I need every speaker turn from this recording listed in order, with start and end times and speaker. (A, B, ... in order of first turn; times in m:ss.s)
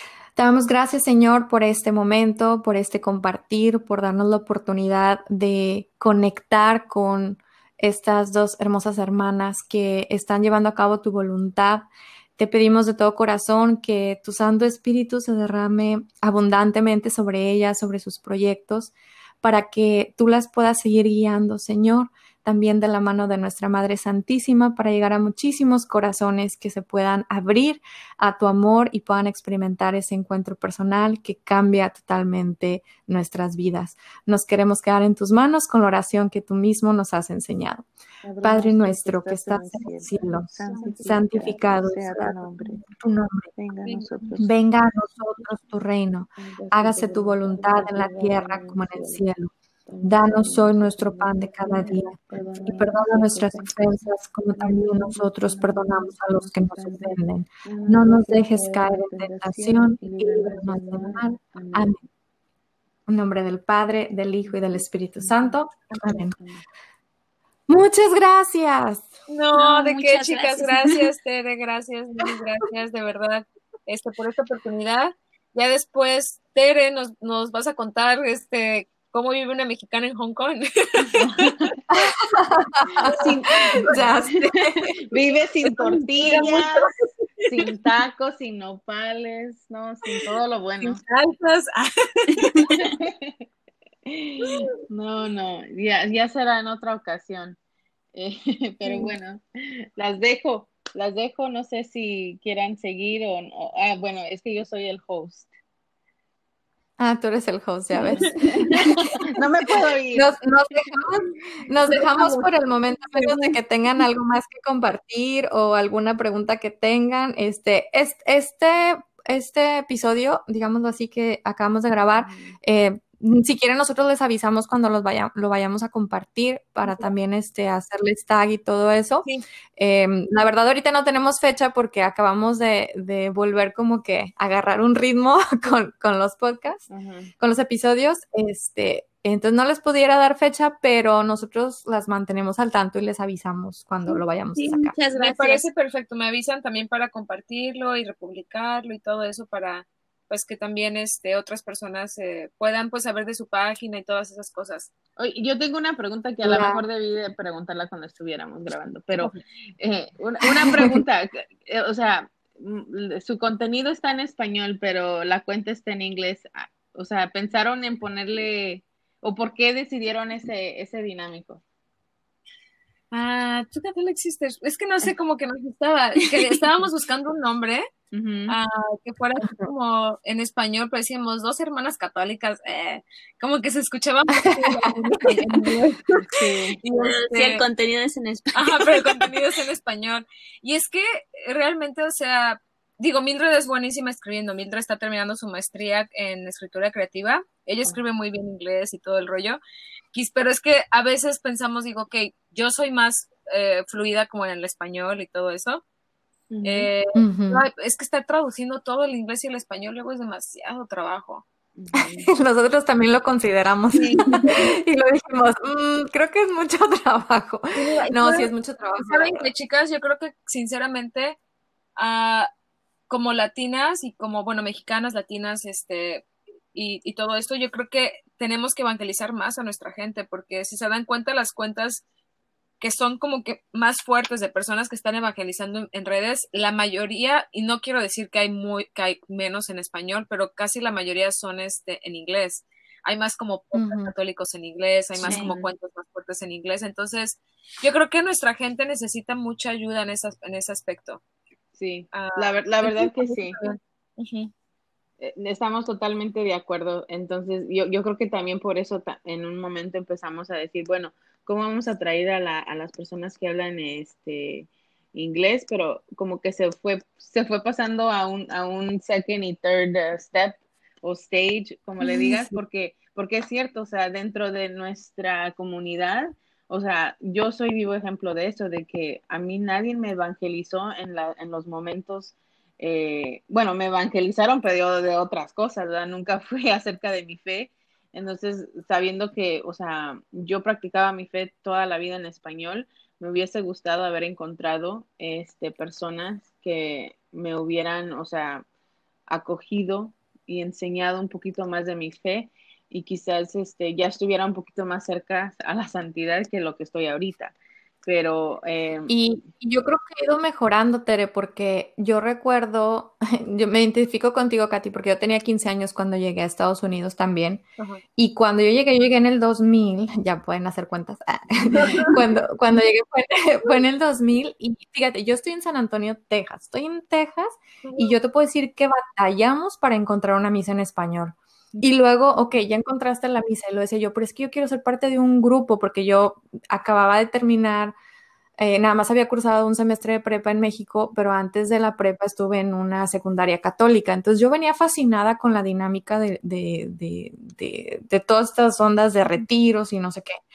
0:00.4-0:37.9 A
0:38.2-0:42.9 B
0:38.4-0:40.5 A
0:40.6-0:41.2 C
0:41.0-0:43.5 A
0:43.6-0:44.5 B
0:43.8-0:44.4 D
0:44.4-0:49.5 A
0:46.4-0:49.2 B
0:49.9-0:53.8 B
0:50.0-1:02.0 A
0:54.6-1:01.9 B
1:03.1-1:06.4 A
1:04.4-1:06.6 B
1:07.7-1:09.1 A
1:09.3-1:21.5 D
1:09.5-1:11.1 C
1:21.1-1:21.8 B
1:21.9-1:24.9 A
1:23.0-1:23.3 D
1:23.2-1:26.9 B
1:25.6-1:27.7 D
1:27.5-1:31.0 B
1:30.8-1:32.7 D
1:32.6-1:33.4 B
1:34.1-1:37.6 B
1:38.1-1:45.5 B
1:47.0-1:48.8 A
1:48.0-1:50.3 B
1:50.2-2:09.3 A
1:52.2-1:52.4 D
2:02.2-2:02.6 B
2:09.8-2:16.8 A
2:16.9-2:17.3 B
2:17.4-2:25.0 A
2:24.1-2:25.6 C
2:25.1-2:34.9 D
2:35.2-2:51.6 B
2:36.4-2:36.8 A
2:53.1-2:57.8 D
2:58.1-2:58.6 B
2:58.5-3:07.6 D
3:04.4-3:04.9 A
3:06.3-3:06.8 B
3:07.0-3:09.3 C
3:08.5-3:19.6 D
3:20.1-3:25.8 D
3:26.5-3:26.9 B
3:26.6-3:31.4 D
3:27.2-3:27.6 A
3:31.8-3:32.3 B
3:32.0-3:39.5 A
3:33.9-3:34.7 B
3:37.8-3:41.4 D
3:42.0-3:42.5 D
3:43.1-3:52.0 D
3:52.8-4:11.2 D
4:03.7-4:04.1 A
4:05.2-4:05.7 B
4:05.2-4:05.5 C
4:11.8-4:13.6 B
4:12.1-4:14.5 D
4:15.2-4:58.7 B
4:32.0-4:32.6 A
4:59.3-5:09.2 B
5:09.1-5:17.6 A
5:18.2-5:38.0 A
5:21.8-5:22.2 D
5:27.8-5:28.2 D
5:38.6-5:50.4 A